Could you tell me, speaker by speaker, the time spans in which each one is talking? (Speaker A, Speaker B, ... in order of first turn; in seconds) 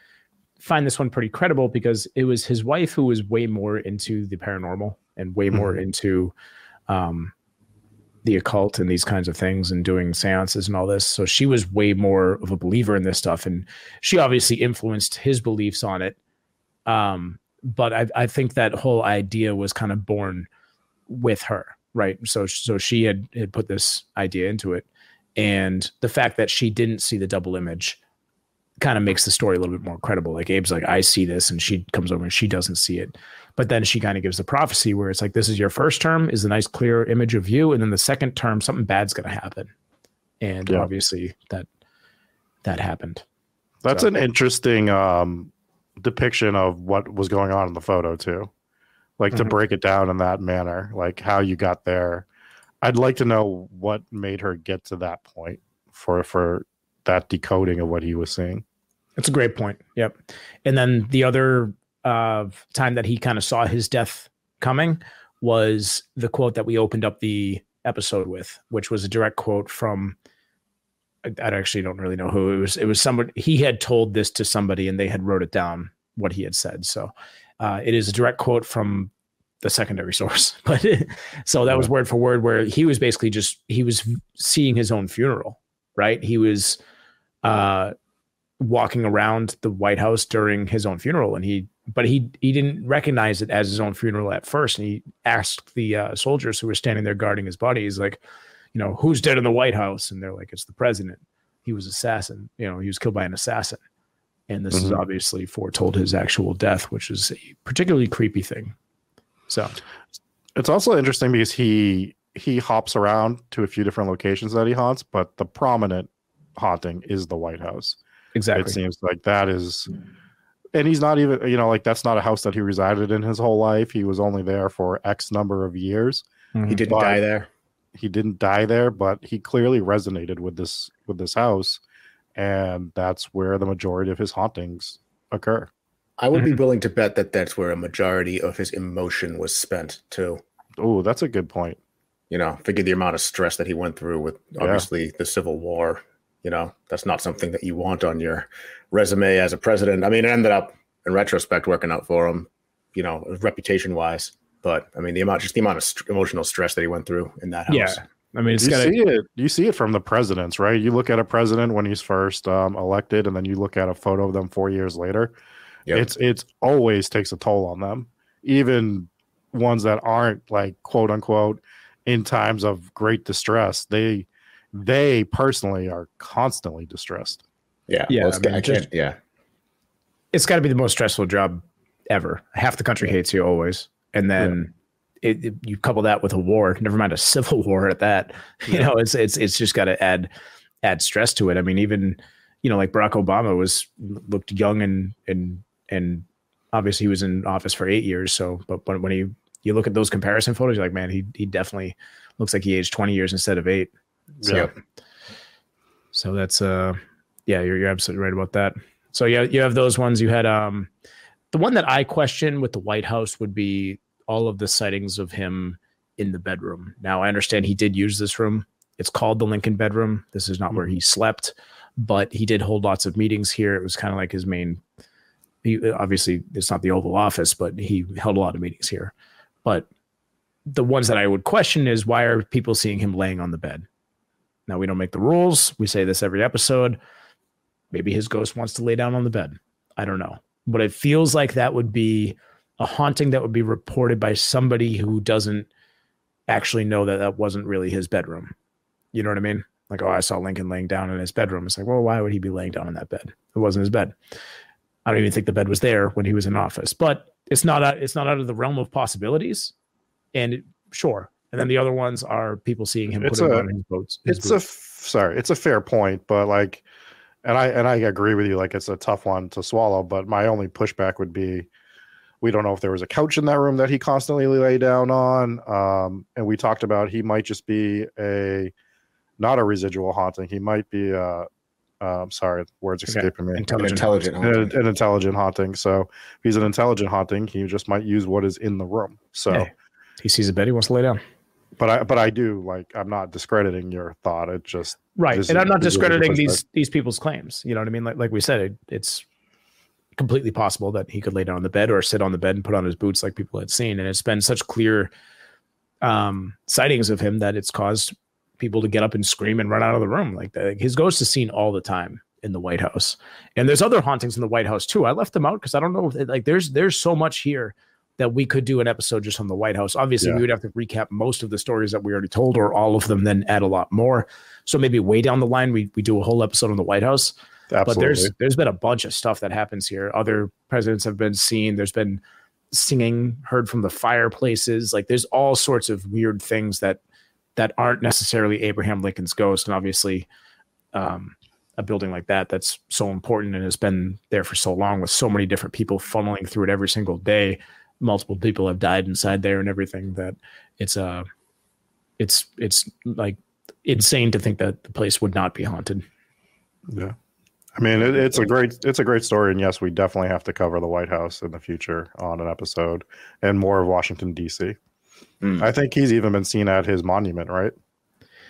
Speaker A: 0.6-6.3, 6.9-7.3, 8.2-16.2, 16.9-20.5, 21.1-28.0, 28.8-39.7, 40.4-41.7, 42.6-43.2, 59.2-70.2, 71.2-79.1, 79.6-86.8, 87.4-87.9, 88.6-98.2, 98.7-103.8, 104.5-108.7, 109.5-109.7, 118.3-118.8, 126.5-126.8, 157.7-158.9, 178.1-178.9, 180.3-190.3, 190.8-203.9, 206.1-210.9, 211.5-224.8, 225.6-229.1, 230.7-233.8, 234.7-237.0, 237.9-245.7, 246.5-248.5, 249.1-254.1, 255.0-259.7, 260.3-264.6, 283.1-284.1, 290.2-291.2, 295.1-299.2, 300.1-305.1, 306.0-337.0, 337.6-340.3, 340.9-351.2, 352.2-356.0
Speaker B: 43.8-48.5, 49.2-52.3, 52.8-58.6, 104.7-105.0, 110.5-118.0, 118.5-119.9, 120.7-126.2, 126.9-127.2, 127.9-131.8, 132.3-135.7, 140.8-141.8, 144.6-144.8, 158.6-165.3, 165.9-177.4, 263.2-263.6, 264.3-266.8, 267.4-271.7, 272.4-278.7, 279.4-281.5, 282.0-283.7, 284.4-289.7, 291.8-296.6, 327.7-328.3, 356.9-357.1, 357.8-364.8, 365.6-367.7
Speaker C: 126.7-127.5, 136.2-140.4, 142.3-158.0, 177.9-179.2, 283.8-284.7